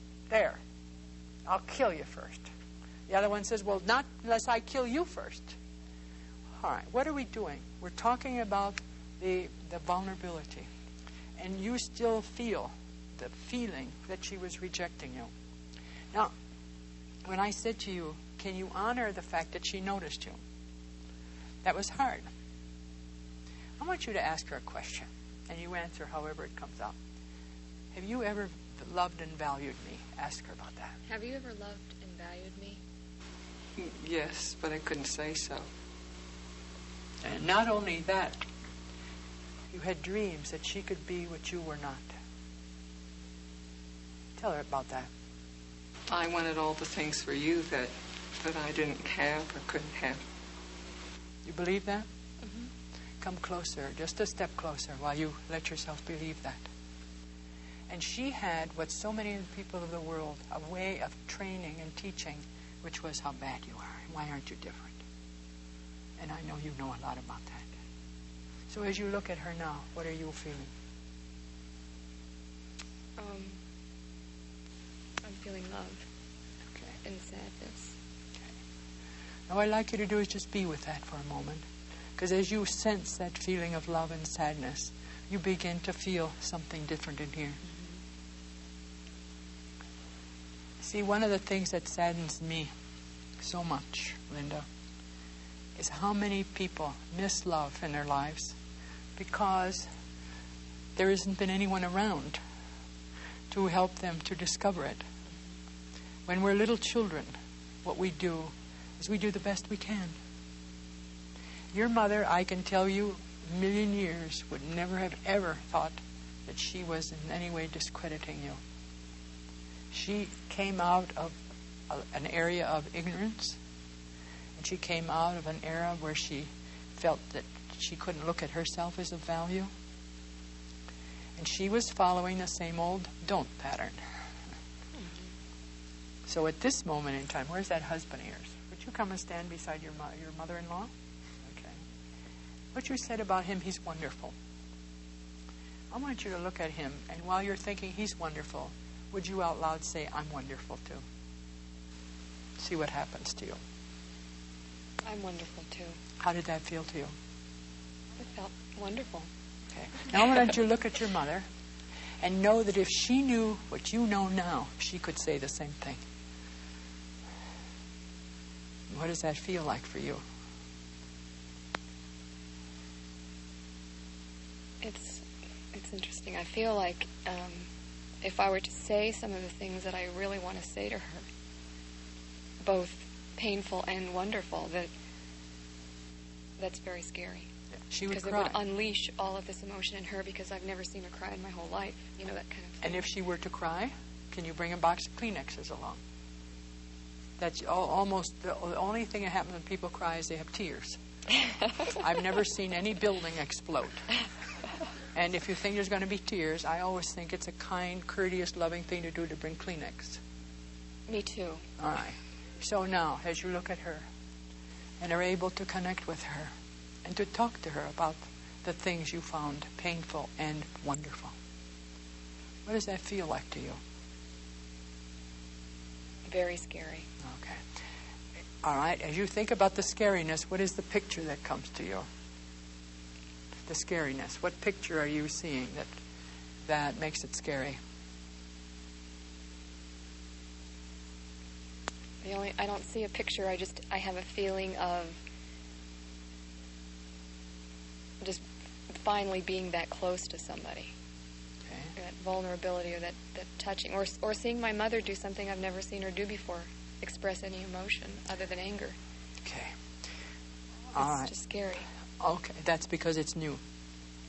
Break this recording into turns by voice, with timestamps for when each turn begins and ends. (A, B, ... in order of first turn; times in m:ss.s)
0:00.3-0:00.6 A
0:01.5-0:02.5 A
0:03.1-0:05.6 A
0:06.6-0:10.7 A
0:11.4-0:15.3 A
0:17.2-0:20.4 A
0:21.6-0:22.3 A
0:23.8-0:27.0 A
0:27.9-0:31.0 A
0:31.1-0:32.8 B
0:33.8-0:35.7 C
0:37.2-0:38.5 A
0:39.7-0:42.1 A
0:44.4-0:45.1 A
0:46.1-0:50.2 C
0:51.4-0:52.1 A
0:53.2-0:56.6 A
0:57.9-1:05.0 A
1:06.2-1:07.7 A
1:08.7-1:10.7 A
1:13.2-1:13.6 B
1:15.2-1:16.1 B
1:17.0-1:18.0 B
1:19.5-1:21.6 A
1:22.2-1:27.6 A
1:30.8-1:32.7 A
1:33.4-1:34.7 A
1:35.8-1:38.6 A
1:39.2-1:39.9 A
1:41.0-1:42.4 A
1:43.5-1:45.0 A
1:46.3-1:47.3 A
1:47.8-1:50.2 A
1:51.7-1:58.6 A
1:59.9-2:03.6 A
2:04.6-2:09.7 A
2:11.4-2:14.0 A
2:16.3-2:20.9 A
2:21.4-2:21.8 A
2:22.7-2:24.4 A
2:25.9-2:31.0 A
2:32.6-2:33.6 A
2:35.0-2:36.0 B
2:36.2-2:37.2 A
2:38.2-2:39.3 B
2:39.7-2:41.5 A
2:42.2-2:46.0 A
2:48.9-2:50.2 A
2:54.8-2:57.7 B
2:58.2-3:01.2 B
3:02.6-3:04.9 B
3:06.6-3:07.5 B
3:07.9-3:08.6 A
3:08.1-3:13.0 B
3:12.8-3:16.0 A
3:17.4-3:21.0 A
3:21.9-3:24.1 A
3:25.2-3:30.2 A
3:31.1-3:31.6 B
3:31.8-3:34.1 A
3:35.0-3:36.5 A
3:37.0-3:41.4 A
3:42.7-3:43.8 A
3:46.3-3:47.1 B
3:47.2-3:47.6 A
3:48.6-3:52.1 A
3:53.7-3:55.9 A
3:56.6-3:57.8 A
4:02.2-4:05.2 B
4:08.2-4:10.9 B
4:11.7-4:11.9 A
4:12.0-4:19.0 B
4:19.4-4:19.8 A
4:20.9-4:21.3 A
4:21.0-4:21.9 B
4:22.2-4:23.6 A